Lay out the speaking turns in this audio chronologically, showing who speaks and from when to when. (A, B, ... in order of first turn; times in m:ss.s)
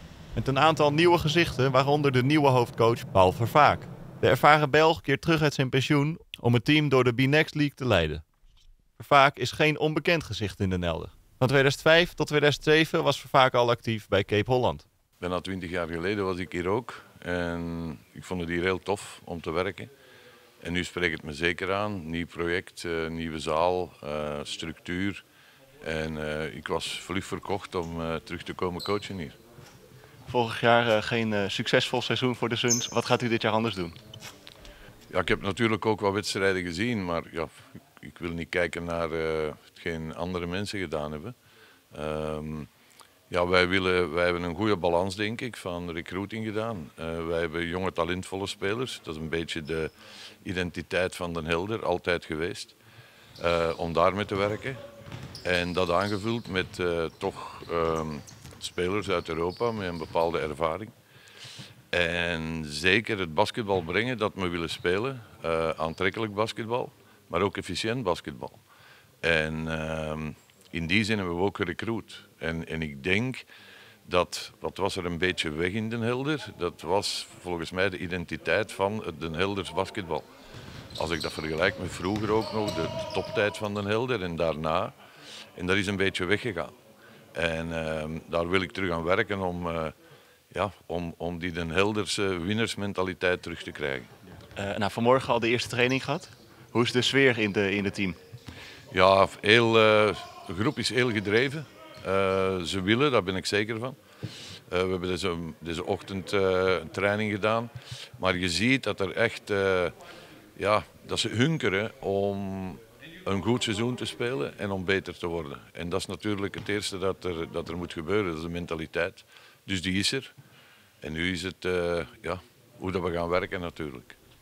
0:00.3-0:08.2 A
0:09.0-0:14.8 A
0:15.2-0:19.9 B
0:20.6-0:25.2 B
0:25.8-0:29.4 B
0:30.3-0:34.0 A
0:35.1-0:41.3 B
0:41.9-0:42.7 B
0:43.3-0:49.9 B
0:50.4-0:52.8 B
0:53.4-0:54.8 B
0:55.4-1:00.9 B
1:01.9-1:08.6 B
1:09.2-1:13.4 B
1:14.0-1:20.3 B
1:21.0-1:24.9 B
1:25.5-1:26.7 B
1:27.3-1:29.9 B
1:30.5-1:34.1 B
1:34.6-1:38.2 A
1:38.9-1:44.0 B
1:44.7-1:49.9 B
1:50.6-2:00.3 B
2:01.0-2:04.2 B